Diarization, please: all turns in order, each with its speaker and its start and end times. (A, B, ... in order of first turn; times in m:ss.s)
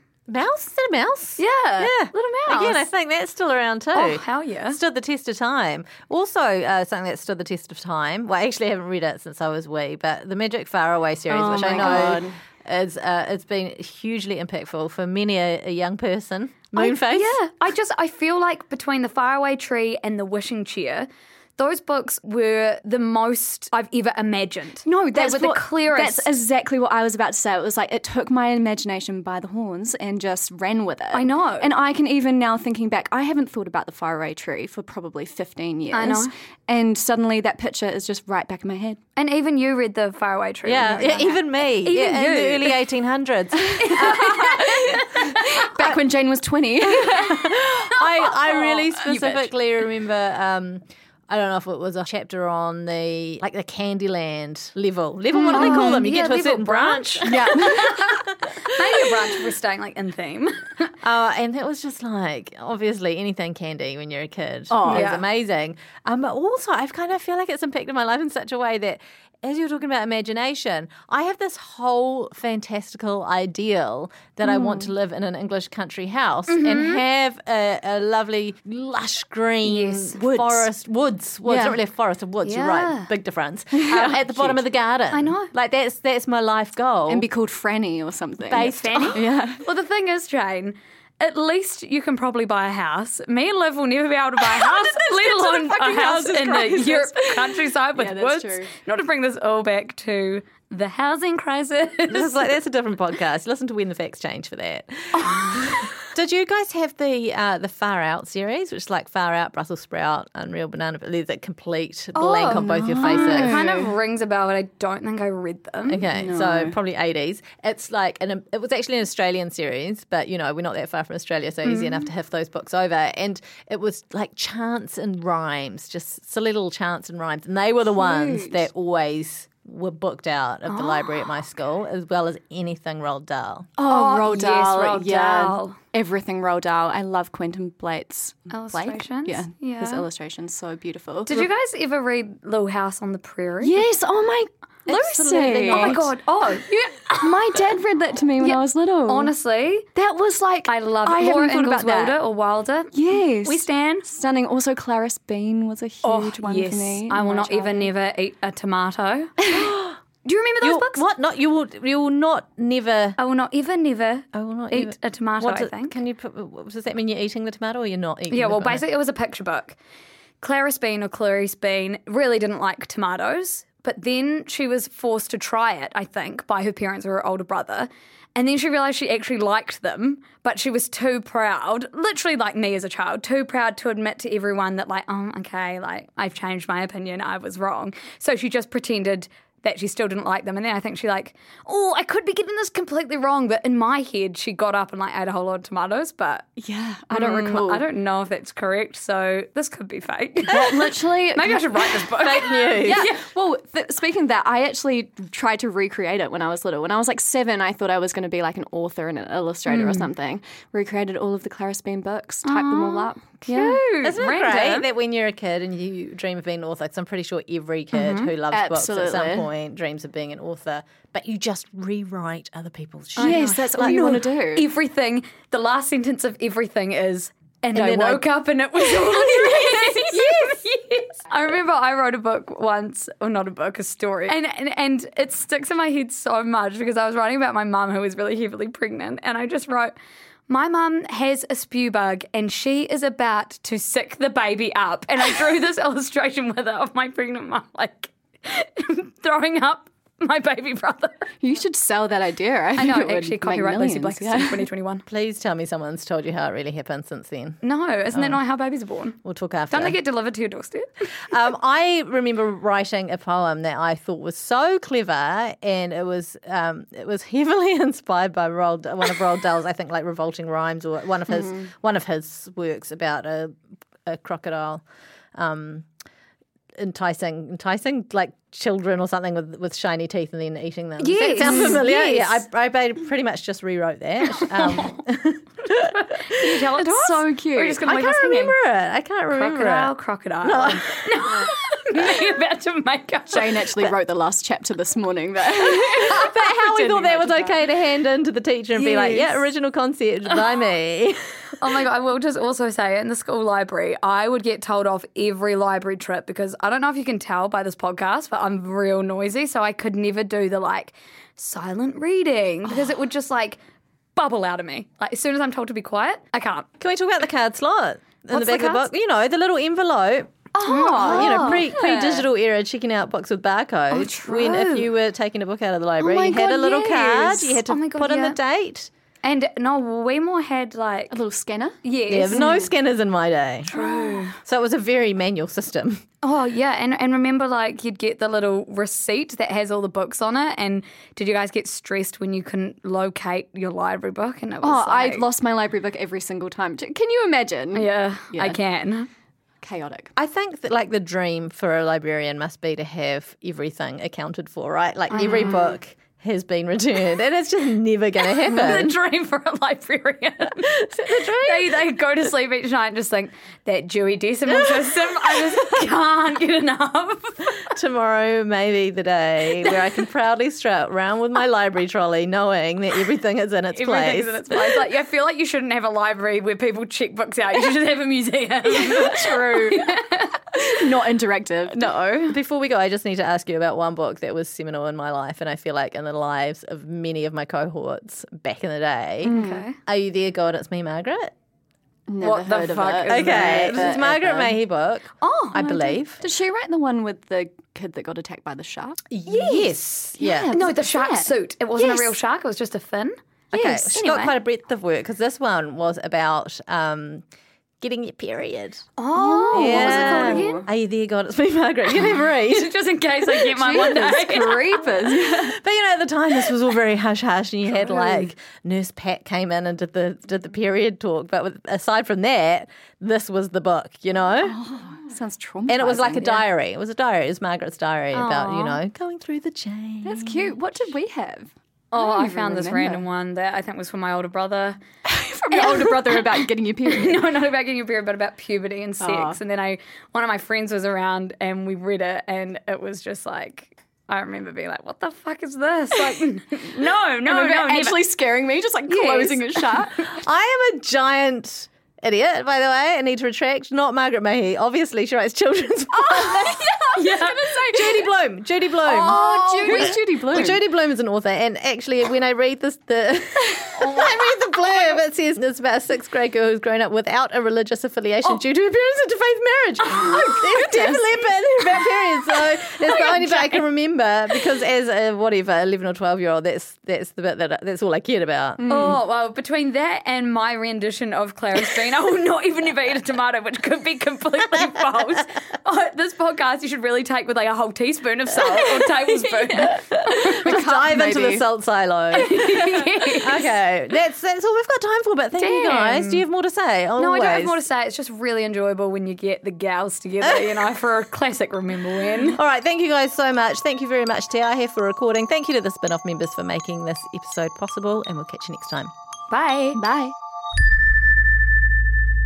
0:00.3-0:17.4 A
0:01.4-0:02.9 B
0:03.9-0:04.8 B
0:11.3-0:12.4 C
0:11.7-0:12.1 B
0:16.7-0:26.3 B
0:24.8-0:39.0 C
0:31.1-0:31.7 B
0:35.9-0:36.3 B
0:39.2-0:42.9 B
0:40.6-0:44.2 A
0:43.7-0:47.3 C
0:43.8-0:45.6 B
0:47.0-0:58.1 A
0:47.2-0:49.4 B
0:55.4-0:56.0 C
0:55.5-1:00.9 B
0:57.2-0:58.0 C
1:01.0-1:27.3 A
1:04.7-1:05.1 C
1:04.8-1:05.2 B
1:14.5-1:14.8 C
1:16.5-1:17.0 B
1:19.6-1:20.3 B
1:20.3-1:20.7 C
1:21.4-1:21.8 C
1:22.4-1:23.1 B
1:23.8-1:24.6 C
1:25.1-1:25.5 B
1:27.1-1:29.6 C
1:28.5-1:29.2 A
1:28.6-1:42.4 B
1:34.4-1:38.7 C
1:42.1-1:53.6 A
1:52.1-1:56.1 B
1:52.6-1:53.9 C
1:55.9-2:13.7 A
1:56.1-1:56.8 C
2:01.6-2:02.1 B
2:07.9-2:08.6 C
2:10.7-2:11.4 B
2:13.8-2:21.5 C
2:13.8-2:15.8 B
2:18.5-2:20.1 B
2:21.3-2:23.9 B
2:23.6-2:26.1 C
2:24.9-2:27.6 B
2:24.9-2:26.1 A
2:26.9-2:29.3 C
2:28.4-2:30.0 B
2:30.0-2:32.2 C
2:30.6-2:34.1 B
2:32.9-2:37.9 C
2:36.0-2:39.5 B
2:39.5-2:39.9 A
2:40.2-2:41.0 B
2:40.6-2:43.2 A
2:43.2-2:46.0 B
2:44.3-2:48.8 A
2:48.3-2:49.8 B
2:50.4-3:16.5 B
3:16.6-3:17.8 C
3:17.1-3:23.2 B
3:20.5-3:22.1 C
3:22.2-3:23.1 A
3:22.8-3:33.8 C
3:29.7-3:30.1 B
3:32.4-3:34.9 B
3:34.0-3:44.2 A
3:37.9-3:38.3 B
3:38.5-3:39.5 C
3:43.2-3:59.9 B
3:43.2-3:44.7 C
3:47.7-3:48.2 A
3:49.2-3:50.5 C
4:00.5-4:11.3 B
4:11.4-4:14.7 C
4:12.8-4:15.0 B
4:15.1-4:17.6 A
4:17.6-4:19.2 B
4:18.1-4:18.4 A
4:19.2-4:20.0 A
4:19.7-4:21.0 B
4:21.3-4:33.5 A
4:34.0-4:34.8 A
4:35.3-4:35.8 A
4:36.8-4:46.6 A
4:41.0-4:42.5 B
4:41.4-4:41.8 C
4:44.4-4:44.9 B
4:45.9-4:48.6 B
4:46.7-4:47.8 C
4:47.8-4:50.8 A
4:49.3-4:53.6 B
4:53.3-4:57.6 C
4:56.0-5:01.3 A
4:58.8-4:59.2 B
4:58.9-4:59.3 C
5:01.6-5:13.6 B
5:14.2-5:16.7 B
5:16.8-5:20.3 A
5:18.3-5:18.9 B
5:20.5-5:22.2 C
5:20.6-5:21.7 B
5:21.0-5:28.9 A
5:23.9-5:24.9 B
5:26.0-5:28.4 B
5:29.2-5:31.2 B
5:31.1-5:31.8 C
5:31.8-5:32.7 B
5:32.1-5:33.7 A
5:33.7-5:34.3 B
5:33.7-5:34.2 C
5:34.4-5:36.0 A
5:36.2-5:45.3 B
5:44.6-5:48.6 C
5:47.7-5:49.1 B
5:49.6-5:50.1 C
5:50.2-5:59.0 A
5:55.1-5:55.7 B
5:55.2-5:55.6 C
5:58.3-6:07.5 B
6:00.7-6:01.7 A
6:07.7-6:14.4 A
6:09.6-6:10.0 B
6:13.7-6:20.7 B
6:18.6-6:20.0 C
6:20.5-6:21.9 C
6:21.8-6:22.4 B
6:22.3-6:31.3 A
6:29.2-6:29.8 B
6:29.2-6:29.7 C
6:32.1-6:34.6 C
6:32.2-6:34.0 B
6:33.1-6:36.2 A
6:35.2-6:36.0 B
6:36.2-6:39.0 C
6:39.1-6:40.6 A
6:39.2-6:39.8 B
6:40.2-6:42.1 C
6:40.5-6:44.4 B
6:43.5-6:47.2 A
6:47.8-6:48.8 A
6:49.0-6:50.7 B
6:49.1-6:50.6 C
6:49.5-6:52.8 A
6:52.4-6:54.8 B
6:53.5-6:55.6 C
6:54.9-7:04.6 A
7:04.5-7:06.5 C
7:05.7-7:10.6 A
7:08.1-7:08.8 B
7:10.0-7:13.0 C
7:11.9-7:14.8 B
7:15.0-7:17.4 C
7:15.5-7:16.2 B
7:16.9-7:28.1 B
7:19.0-7:19.4 C
7:26.0-7:26.3 C
7:27.2-7:30.1 C
7:28.9-7:29.8 B
7:30.1-7:36.6 A
7:35.9-7:38.1 C
7:36.9-7:38.0 B
7:37.7-7:58.7 A
7:38.8-7:40.6 C
7:38.9-7:40.0 B
7:50.2-7:51.1 C
7:52.8-7:53.6 B
7:58.6-7:59.0 C
7:58.6-8:10.5 B
8:10.2-8:11.4 C
8:10.3-8:12.5 A
8:12.1-8:13.5 B
8:13.2-8:17.6 A
8:15.4-8:16.2 B
8:17.0-8:22.4 B
8:20.2-8:20.5 A
8:22.2-8:28.9 A
8:29.3-8:29.8 B
8:29.7-8:30.1 C